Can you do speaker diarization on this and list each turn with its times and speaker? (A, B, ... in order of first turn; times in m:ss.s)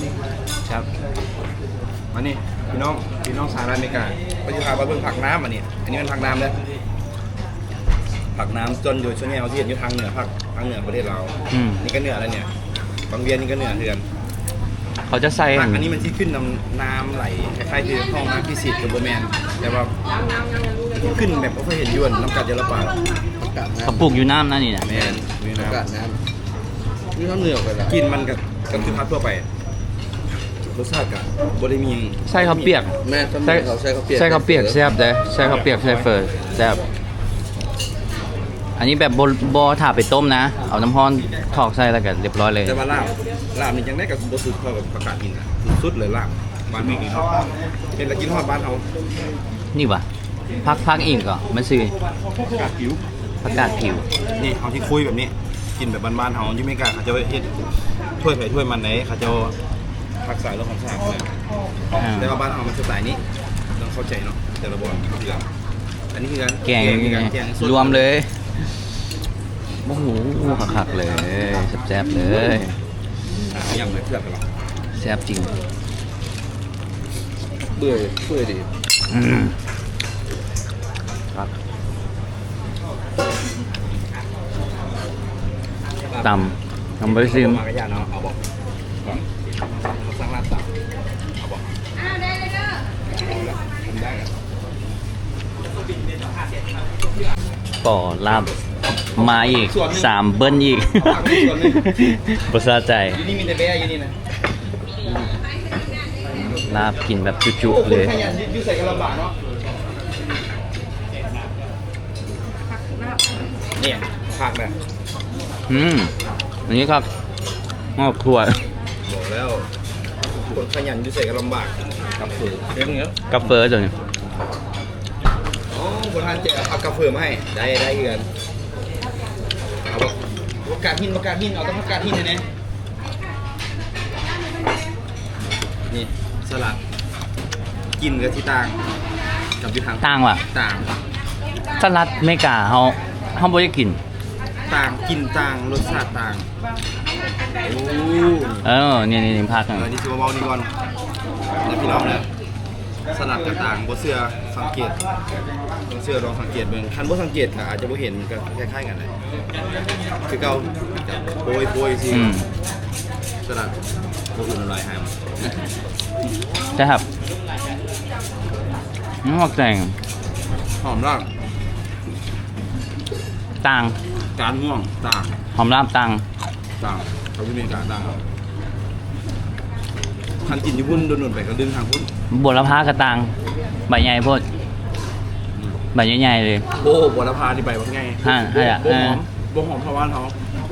0:02.1-0:06.6 A
0:08.3-0:12.5 A
0:11.5-0:11.8 B
0:13.1-0:14.0 A
0:15.1-0:15.9 B
0:15.5-0:20.0 A
0:20.9-0:23.0 A
0:23.4-0:24.1 C
0:23.8-0:24.9 B
0:24.8-0:25.8 A
0:24.9-0:26.2 C
0:27.2-0:28.0 C
0:27.8-0:29.5 A
0:30.7-0:32.8 A
0:32.3-0:36.8 B
0:33.0-0:34.9 C
0:35.4-0:36.1 A
0:38.8-0:42.8 B
0:42.6-0:47.4 A
0:47.9-0:48.9 A
0:49.7-0:50.1 B
0:50.6-0:51.9 B
0:52.5-0:53.0 A
0:53.4-0:54.1 B
0:54.4-0:57.5 A
0:58.2-0:59.6 A
1:00.2-1:01.3 A
1:01.9-1:02.4 B
1:02.0-1:03.2 A
1:03.8-1:05.5 A
1:06.1-1:08.1 A
1:06.6-1:08.4 B
1:09.8-1:12.8 B
1:13.5-1:14.4 A
1:14.9-1:15.6 B
1:17.7-1:18.7 C
1:19.1-1:19.6 B
1:26.1-1:26.5 A
1:26.2-1:27.6 B
1:27.0-1:28.4 A
1:29.8-1:30.7 A
1:31.4-1:31.7 A
1:33.2-1:34.3 A
1:37.8-1:38.5 B
1:39.2-1:40.2 A
1:39.2-1:43.2 B
1:40.9-1:41.8 A
1:43.1-1:44.2 A
1:46.4-1:48.2 B
1:47.6-1:49.4 A
1:53.8-1:54.8 A
1:55.7-1:56.1 B
1:56.7-1:57.1 B
1:58.0-1:58.6 B
1:59.0-1:59.7 A
2:00.4-2:03.1 A
2:03.3-2:03.9 B
2:05.7-2:08.3 A
2:09.9-2:12.5 A
2:15.9-2:16.8 A
2:18.0-2:18.8 A
2:19.6-2:20.9 A
2:20.0-2:20.4 B
2:21.8-2:24.0 B
2:24.7-2:26.5 A
2:27.6-2:28.6 A
2:28.6-2:29.9 B
2:29.7-2:30.7 A
2:31.6-2:32.3 A
2:33.1-2:35.0 A
2:35.9-2:39.1 A
2:40.3-2:42.4 A
2:42.1-2:42.5 B
2:43.5-2:43.7 C
2:44.4-2:45.3 A
2:46.8-2:47.0 B
2:49.2-2:50.0 B
2:50.8-2:51.3 A
2:53.6-2:54.0 B
2:54.4-2:55.4 A
2:55.5-2:56.2 B
2:56.8-2:58.2 A
3:00.4-3:02.1 A
3:02.3-3:03.3 B
3:03.9-3:04.4 B
3:05.9-3:06.7 B
3:06.8-3:10.4 A
3:08.2-3:09.2 B